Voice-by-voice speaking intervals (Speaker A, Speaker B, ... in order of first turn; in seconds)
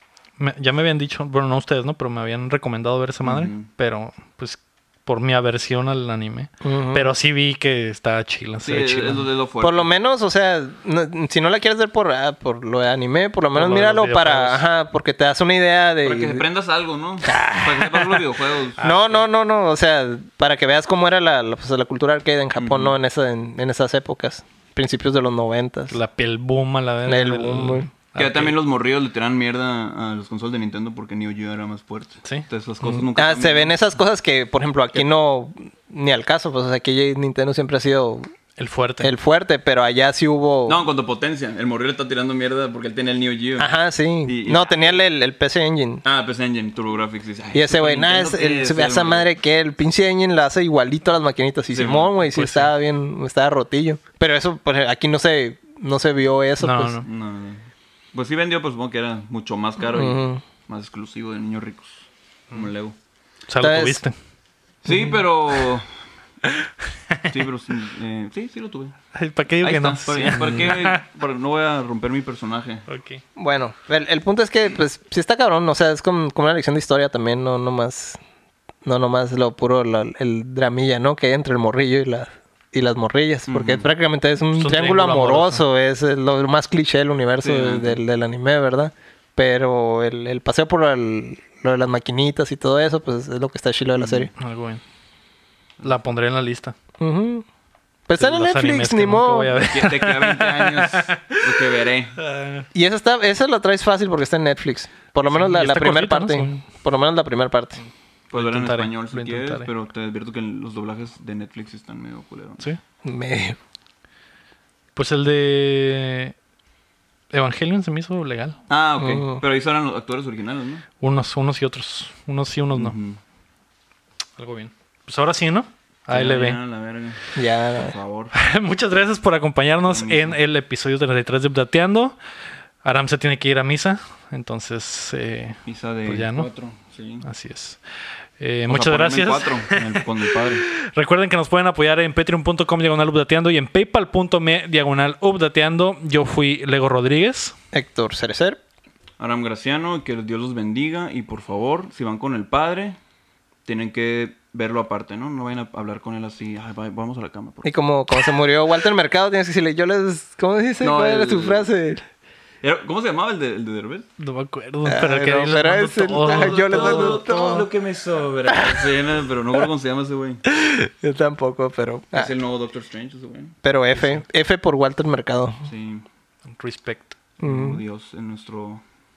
Speaker A: 0.4-9.2, 13.5-14.6, 18.8-19.2, 25.9-28.5, 38.6-39.1, 52.3-52.7, 56.6-57.0, 63.5-64.1, 66.4-67.4, 69.1-71.0, 72.9-73.2, 84.5-85.6, 94.3-94.8, 95.8-96.8, 98.2-101.5, 102.2-102.7, 105.3-106.6, 108.3-109.7, 115.0-116.3, 117.3-118.6, 121.0-123.0, 124.4-126.6, 128.3-132.2, 132.8-136.5, 137.2-137.8, 138.4-140.0, 140.7-147.6, 164.2-167.3, 176.5-177.2
Speaker B: 3.2-3.7, 8.6-9.9, 16.0-18.8, 22.6-22.9, 28.1-33.7, 40.6-43.7, 44.2-45.0, 46.0-49.3, 51.7-52.1, 57.0-62.9, 64.8-65.9, 67.3-68.9, 69.6-72.8, 83.5-83.9, 87.4-88.0, 94.0-94.3, 99.6-102.2, 108.3-112.6, 118.7-120.8, 122.7-123.2, 126.1-128.3, 129.8-130.4, 135.7-137.3, 138.7-140.7, 149.2-153.0, 153.7-157.7, 160.8-161.7, 162.6-164.1, 166.1-170.4, 172.1-173.6, 175.6-176.0, 177.4-178.8
Speaker C: 6.6-7.1, 9.6-16.4, 17.2-18.2, 18.8-26.0, 27.1-27.9, 33.1-38.2, 39.0-40.8, 43.6-46.0, 47.5-57.0, 59.9-60.4, 63.6-64.0, 73.3-78.2, 78.8-94.3, 97.0-97.5, 98.1-99.5, 102.7-107.8, 113.0-113.6, 119.0-119.4, 127.3-127.9, 147.7-148.6, 157.6-162.0, 164.8-167.7, 168.5-168.9, 170.5-172.3, 173.6-175.6, 177.4-177.8